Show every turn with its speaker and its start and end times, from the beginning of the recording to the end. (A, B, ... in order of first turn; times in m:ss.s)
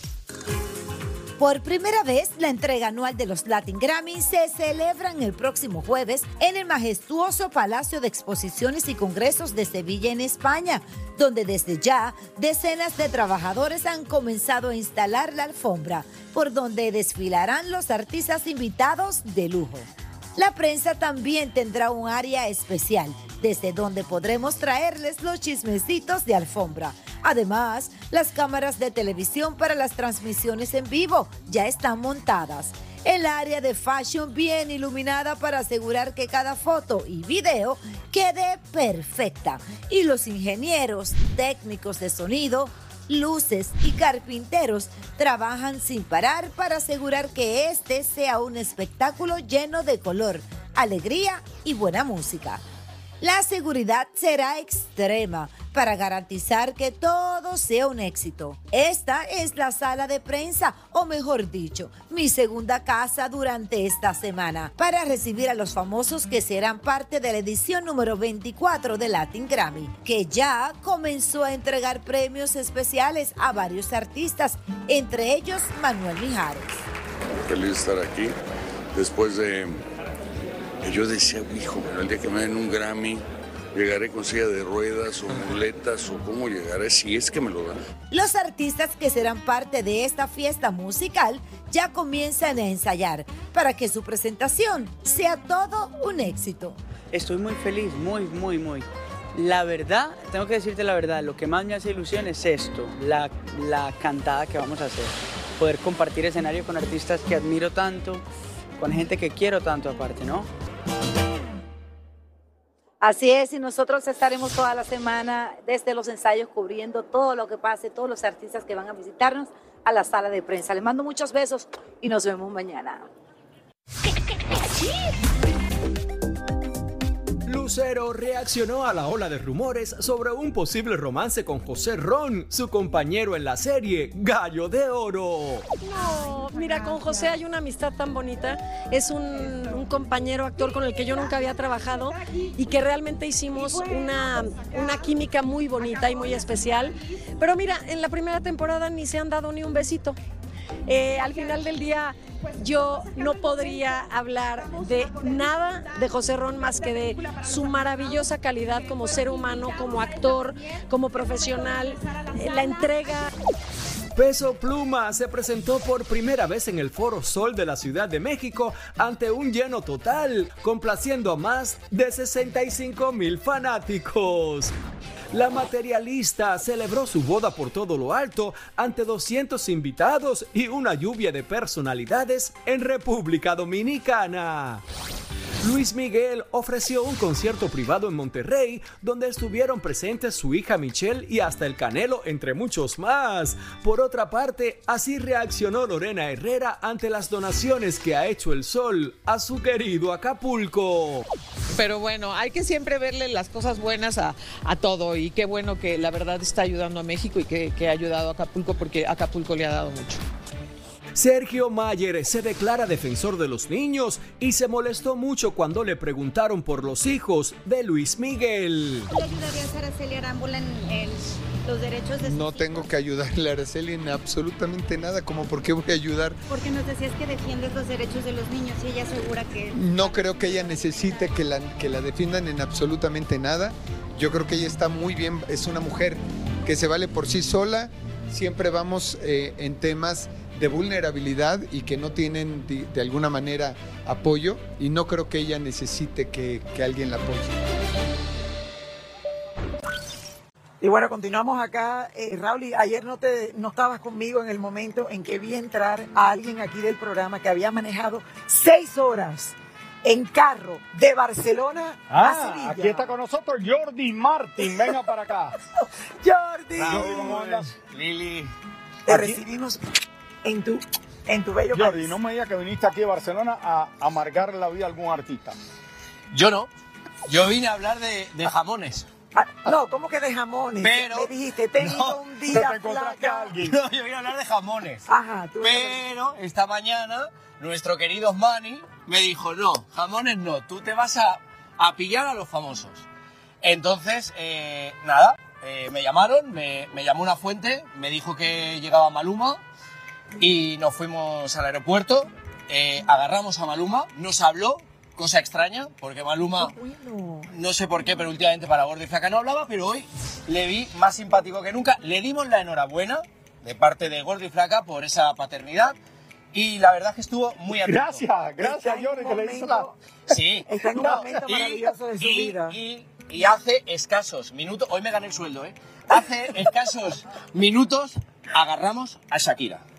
0:01.4-0:52.6 A
0:53.2-1:16.8 A
1:17.5-1:18.3 B
1:19.0-1:19.8 B
1:20.8-1:23.2 B
1:23.8-1:27.8 B
1:28.1-1:36.8 A
1:37.1-1:48.3 C
1:48.8-1:50.5 C
1:53.0-2:03.1 A
2:07.5-2:15.6 D
2:15.9-2:30.2 E
2:30.9-2:43.3 E
2:44.2-2:54.7 D
2:55.3-3:04.8 D
3:05.6-3:21.3 D
3:21.8-3:30.2 F
3:31.2-3:39.1 D
3:39.1-3:42.8 G
3:42.3-3:46.4 H
3:46.5-3:50.2 G
3:49.7-4:07.7 H
4:10.8-4:23.1 I
4:22.1-4:25.6 J
4:26.2-4:27.4 I
4:26.8-4:28.5 K
4:26.8-4:27.8 J
4:29.1-4:29.8 I
4:29.1-4:29.4 J
4:30.4-4:32.2 I
4:31.7-4:35.6 J
4:36.3-4:36.7 K
4:37.3-4:39.1 K
4:39.4-4:43.6 I
4:40.8-4:42.2 K
4:42.5-4:43.7 J
4:43.6-4:45.1 K
4:45.1-4:46.0 I
4:45.6-4:53.0 K
4:53.6-4:59.6 K
5:00.4-5:06.8 K
5:07.4-5:16.0 K
5:16.5-5:18.2 K
5:17.7-5:19.9 J
5:18.6-5:19.9 I
5:20.3-5:29.8 K
5:20.7-5:22.8 I
5:20.9-5:21.6 J